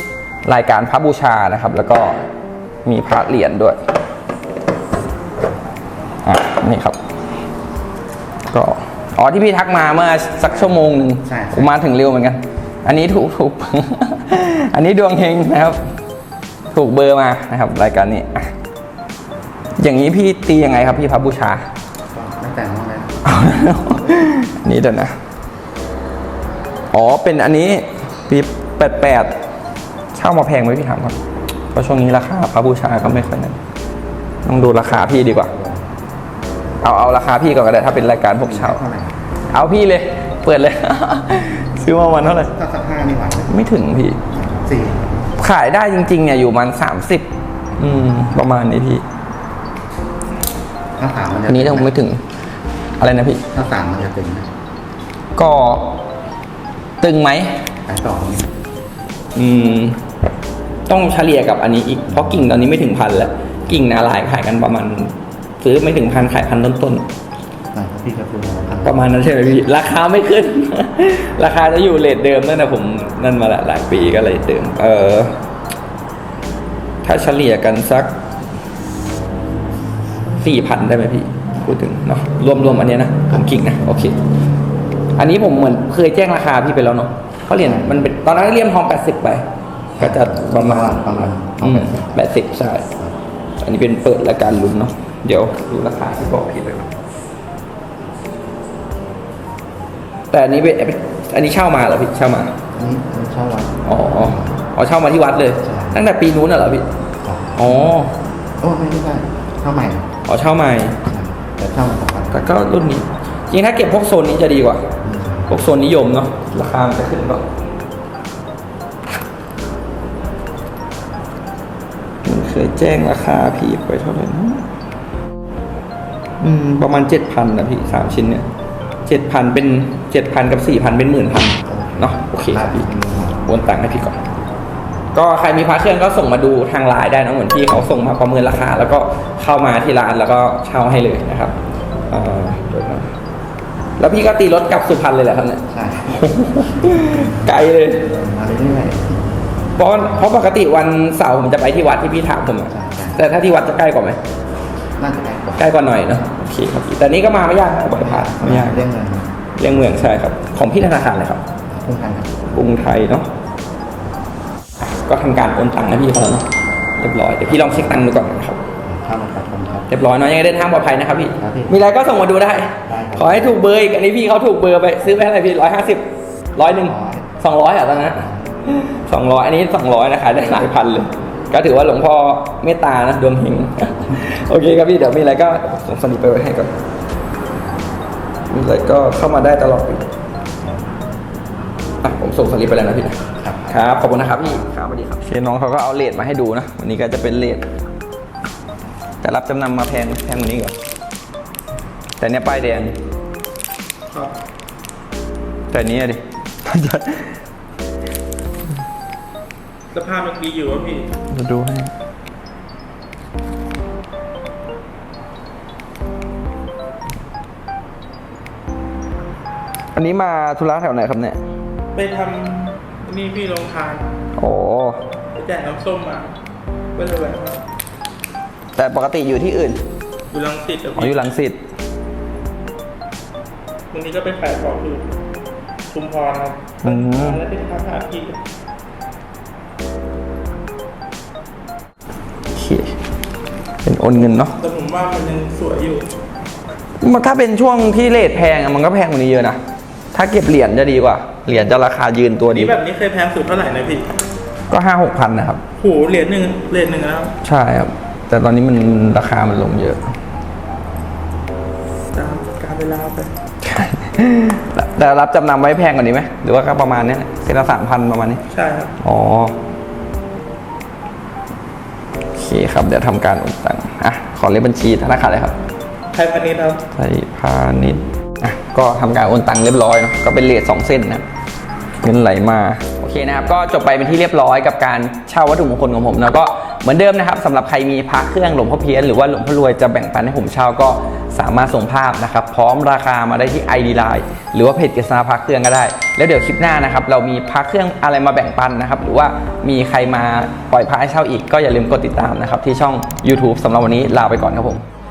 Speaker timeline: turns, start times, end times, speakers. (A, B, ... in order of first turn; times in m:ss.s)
0:00.4-0:02.2 A
0:02.8-0:03.8 A
0:06.2-0:07.0 A
0:08.5-0:15.8 A
0:10.5-0:11.7 B
0:16.7-0:18.5 A
0:19.8-0:21.6 A
0:22.1-0:23.2 B
0:23.2-0:25.2 A
0:26.9-0:29.3 A
0:30.1-0:31.2 A
0:31.7-0:33.6 A
0:34.4-0:35.5 A
0:34.7-0:35.8 B
0:36.8-0:38.8 A
0:38.4-0:39.2 B
0:39.5-0:42.5 A
0:42.2-0:43.6 B
0:43.5-0:44.2 A
0:44.3-0:45.3 B
0:45.4-0:47.2 A
0:47.8-0:49.0 A
0:51.0-0:52.0 B
0:51.5-0:52.2 A
0:53.0-0:53.4 A
0:53.5-0:54.5 B
0:55.4-0:55.9 A
0:57.0-0:57.6 A
0:57.8-0:58.5 B
0:59.3-1:00.0 A
1:00.9-1:07.1 A
1:07.7-1:09.7 B
1:08.8-1:15.4 A
1:17.0-1:18.1 A
1:20.4-1:24.2 A
1:23.3-1:24.1 B
1:25.2-1:29.4 A
1:27.6-1:28.0 B
1:30.0-1:32.9 A
1:30.0-1:32.2 B
1:33.6-1:36.9 A
1:40.3-1:42.5 A
1:42.7-1:44.5 B
1:43.8-1:46.8 A
1:45.6-1:46.0 B
1:47.2-1:47.7 B
1:47.6-1:48.2 A
1:48.6-1:50.1 B
1:50.2-1:51.0 A
1:51.0-1:52.4 B
1:52.3-1:54.9 A
1:55.0-1:55.5 B
1:55.5-1:57.4 A
2:02.2-2:04.6 A
2:06.4-2:08.4 A
2:09.0-2:12.9 A
2:11.6-2:13.4 B
2:13.4-2:14.2 A
2:15.1-2:21.6 A
2:22.1-2:23.1 A
2:24.0-2:28.1 A
2:25.7-2:27.5 B
2:28.0-2:29.2 B
2:29.8-2:34.2 A
2:32.7-2:33.2 B
2:35.0-2:35.6 B
2:35.6-2:38.8 A
2:38.0-2:39.4 B
2:39.6-2:41.4 A
2:41.7-2:42.5 B
2:42.5-2:43.3 A
2:45.0-2:46.4 A
2:47.0-2:48.6 A
2:47.4-2:48.0 B
2:48.8-2:49.9 B
2:49.9-2:56.0 A
2:51.4-2:51.8 B
2:52.8-2:53.6 B
2:56.6-3:06.7 A
2:56.8-2:57.4 B
2:58.1-2:58.6 B
3:08.5-3:10.0 A
3:12.0-3:17.6 A
3:13.4-3:14.5 B
3:19.2-3:20.7 A
3:22.2-3:22.9 A
3:24.1-3:24.4 C
3:25.7-3:27.4 A
3:29.9-3:31.1 C
3:31.3-3:31.9 A
3:39.9-3:41.4 A
3:41.9-3:44.1 C
3:44.4-3:45.0 A
3:45.3-3:46.3 C
3:46.9-3:47.6 C
3:48.8-3:49.8 A
3:50.3-3:51.2 C
3:51.0-3:51.6 A
3:53.9-3:55.0 C
3:55.9-3:58.4 C
3:56.8-3:57.4 A
4:02.5-4:02.9 A
4:03.8-4:04.6 A
4:04.6-4:06.1 C
4:07.0-4:09.6 A
4:10.1-4:12.7 A
4:12.5-4:14.1 C
4:14.7-4:15.6 A
4:15.8-4:17.3 C
4:17.4-4:20.0 A
4:22.1-4:23.3 C
4:23.6-4:28.4 A
4:28.5-4:28.9 C
4:29.0-4:29.6 A
4:32.3-4:35.5 A
4:36.1-4:36.8 C
4:36.9-4:41.2 A
4:42.0-5:04.8 A